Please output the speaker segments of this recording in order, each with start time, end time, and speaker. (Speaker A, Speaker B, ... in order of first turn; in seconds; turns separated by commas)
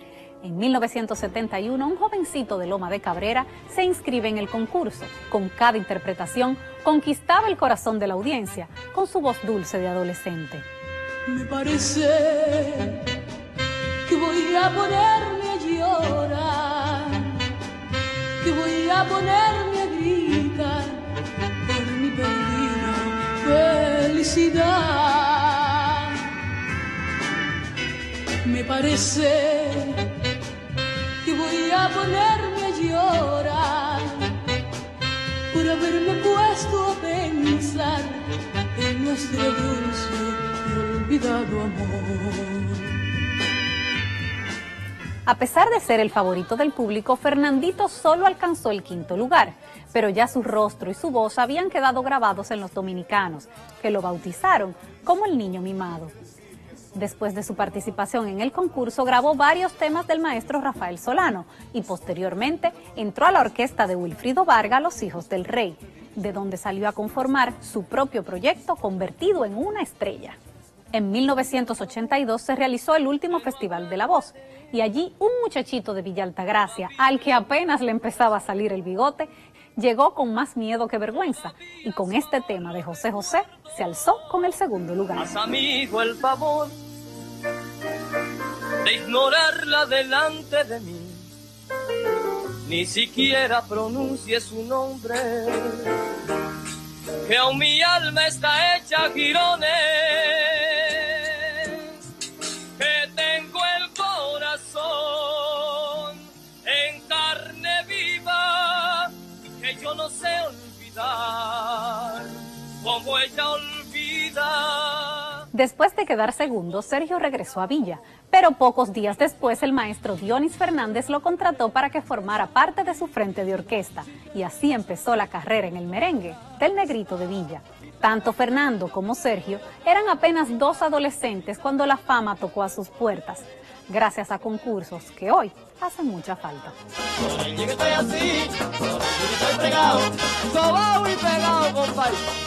Speaker A: 0.4-10.7, Speaker B: 11.2-13.1, Speaker B: 14.0-17.5, Speaker B: 18.4-26.4, Speaker B: 28.4-30.2, Speaker B: 31.2-34.4, Speaker B: 35.5-43.0, Speaker A: 45.2-56.1, Speaker A: 56.9-70.4, Speaker A: 70.9-85.3, Speaker C: 85.2-86.8, Speaker C: 88.8-91.3, Speaker C: 92.6-96.4, Speaker C: 97.2-115.4, Speaker A: 115.5-136.7, Speaker C: 137.2-142.3